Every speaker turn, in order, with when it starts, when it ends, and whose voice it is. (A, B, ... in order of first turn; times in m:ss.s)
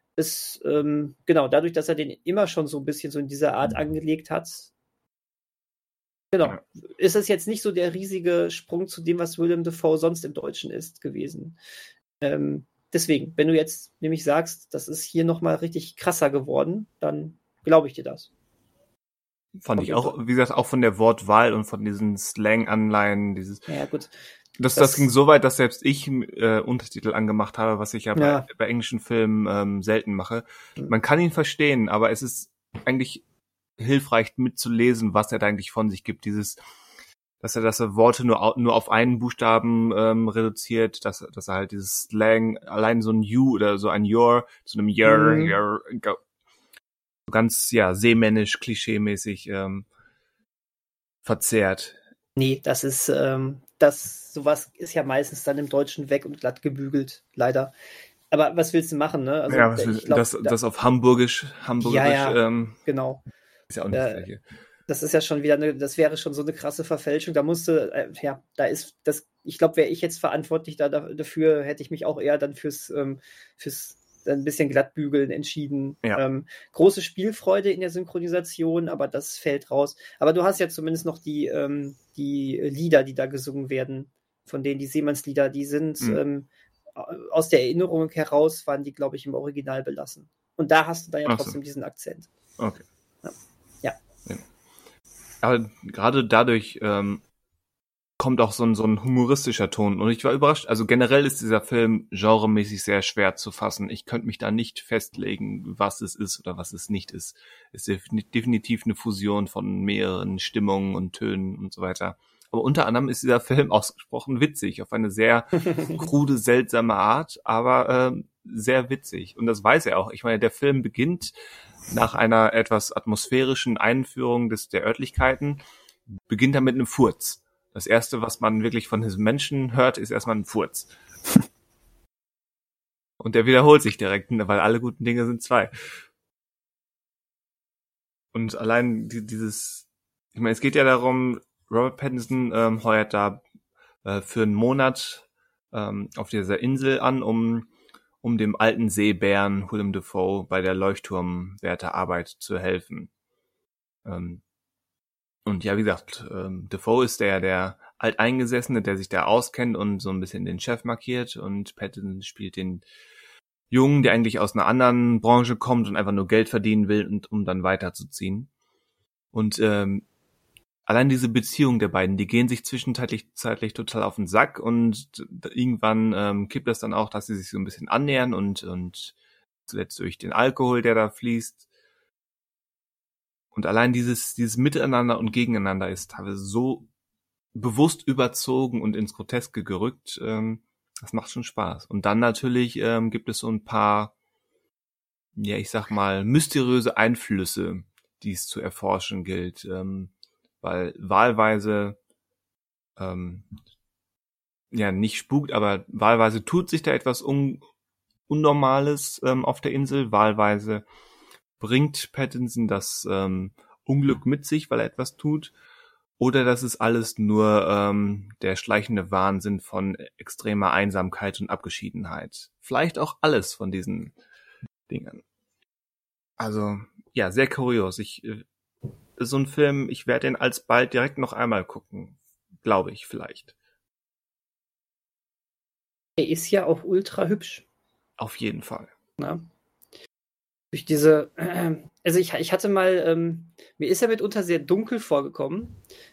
0:00.2-0:04.7 A
0:06.3-0:11.6 A
0:12.2-0:18.3 A
0:19.6-0:23.7 B
0:19.8-0:20.2 A
0:23.7-0:24.2 A
0:24.6-0:33.2 B
0:24.8-0:25.1 A
0:28.2-0:28.5 A
0:33.8-0:36.6 B
0:37.4-0:46.2 B
0:45.0-0:45.6 A
0:47.3-0:49.9 B
0:51.2-0:52.0 B
0:52.4-0:57.7 A
0:58.3-1:00.6 A
0:59.5-1:02.8 B
1:01.8-1:03.2 A
1:03.7-1:04.4 B
1:03.9-1:04.3 A
1:04.9-1:32.3 A
1:31.3-1:31.6 B
1:32.6-1:32.8 B
1:33.2-1:34.0 A
1:35.4-1:37.2 B
1:38.2-2:01.3 B
2:01.9-2:05.6 B
2:06.3-2:10.9 B
2:13.2-2:15.7 B
2:18.3-2:23.4 B
2:24.0-2:27.7 B
2:28.2-2:33.1 B
2:34.0-2:34.4 B
2:35.5-2:42.8 B
2:43.7-2:48.5 B
2:49.3-2:50.0 B
2:50.9-2:59.2 B
2:59.7-3:01.6 B
3:03.5-3:06.9 B
3:07.6-3:14.1 B
3:15.4-3:22.0 B
3:23.0-3:23.5 B
3:24.7-3:27.6 B
3:28.3-3:30.8 B
3:31.6-3:35.5 B
3:36.2-3:44.2 B
3:44.9-3:45.2 B
3:46.4-3:48.4 B
3:49.2-3:53.5 B
3:56.2-3:57.6 A
3:58.2-3:58.9 B
3:59.2-3:59.4 A
4:00.7-4:05.8 A